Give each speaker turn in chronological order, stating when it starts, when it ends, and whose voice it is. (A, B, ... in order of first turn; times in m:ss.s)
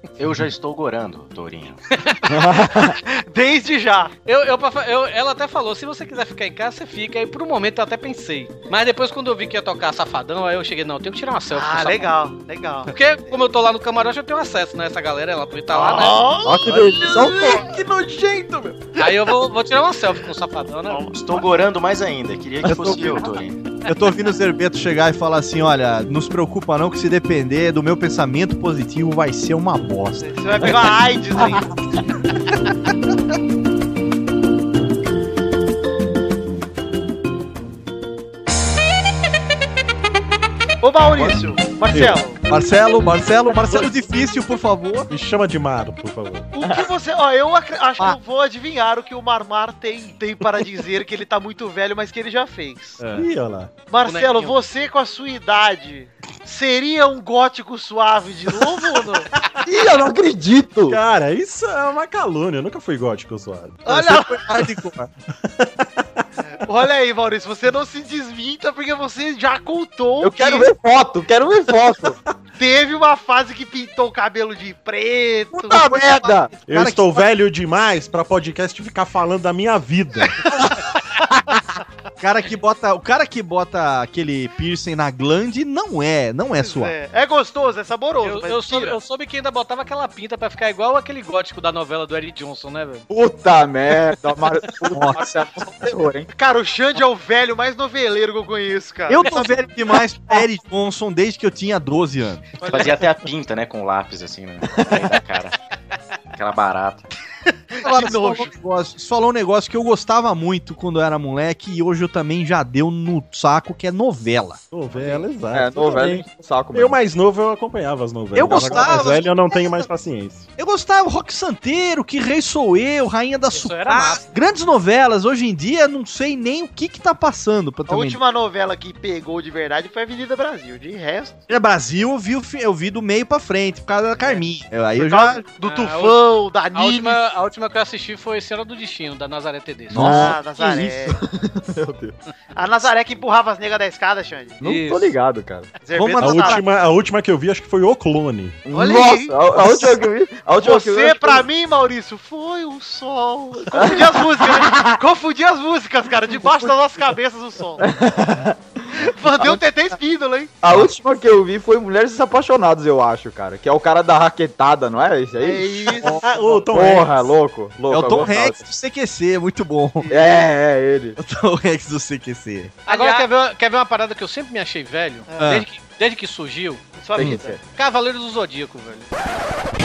0:00.2-0:01.8 A
0:02.3-0:03.0 B
0:03.0-0:04.1 C
0:04.3-0:12.1 D
0:11.5-0:13.4 C
0:12.9-0:16.2 D
0:15.7-0:17.7 C
0:16.4-0:17.8 B
0:17.8-0:18.7 E
0:19.0-0:21.0 D
0:20.9-0:21.4 C
0:21.1-0:23.6 A
0:23.9-0:30.7 F
0:30.2-0:31.7 C
0:40.8-0:42.4 C
0:42.5-0:45.1 F
0:45.1-0:46.5 E
0:46.5-0:53.0 C
0:46.6-0:46.9 B
0:53.0-0:53.7 E
0:53.9-0:59.3 C
0:54.1-0:54.6 D
0:59.6-1:01.0 B
1:00.9-1:03.8 E
1:03.8-1:04.5 C
1:03.9-1:05.1 F
1:05.4-1:06.2 E
1:06.5-1:10.7 C
1:10.2-1:12.2 B
1:12.6-1:16.1 C
1:15.5-1:16.6 B
1:15.6-1:17.3 F
1:16.7-1:20.4 E
1:20.5-1:20.8 B
1:22.2-1:27.0 F
1:26.6-1:29.0 C
1:28.2-1:33.0 D
1:33.1-1:36.3 B
1:34.9-1:35.2 F
1:36.4-1:39.9 C
1:39.1-1:42.5 F
1:42.6-1:43.0 C
1:42.7-1:45.6 A
1:46.4-1:47.1 A
1:47.8-1:48.5 C
1:47.8-1:54.6 F
1:54.7-2:00.5 E
1:55.5-1:57.0 B
1:58.3-1:59.9 F
1:58.6-1:58.9 B
2:00.6-2:08.2 F
2:03.5-2:04.2 D
2:07.9-2:11.4 C
2:11.5-2:15.4 F
2:15.0-2:17.2 C
2:15.6-2:16.2 D
2:16.7-2:20.1 D
2:19.9-2:22.2 B
2:19.9-2:21.2 C
2:22.6-2:24.6 C
2:24.6-2:25.2 D
2:24.6-2:25.7 B
2:25.8-2:26.6 C
2:25.9-2:26.6 F
2:26.2-2:28.6 E
2:28.6-2:31.5 B
2:28.7-2:30.0 C
2:30.6-2:37.8 C
2:33.7-2:35.0 B
2:37.8-2:39.1 B
2:39.0-2:40.6 C
2:40.6-2:46.1 B
2:45.4-2:46.2 C
2:46.0-2:46.4 F
2:46.2-2:47.3 E
2:46.7-2:48.6 B
2:47.9-2:50.1 F
2:50.1-2:51.2 B
2:51.2-2:52.8 F
2:52.9-2:53.3 C
2:52.9-2:56.8 D
2:55.4-2:55.7 F
2:57.0-2:57.6 C
2:57.2-2:57.6 B
2:57.6-2:59.1 D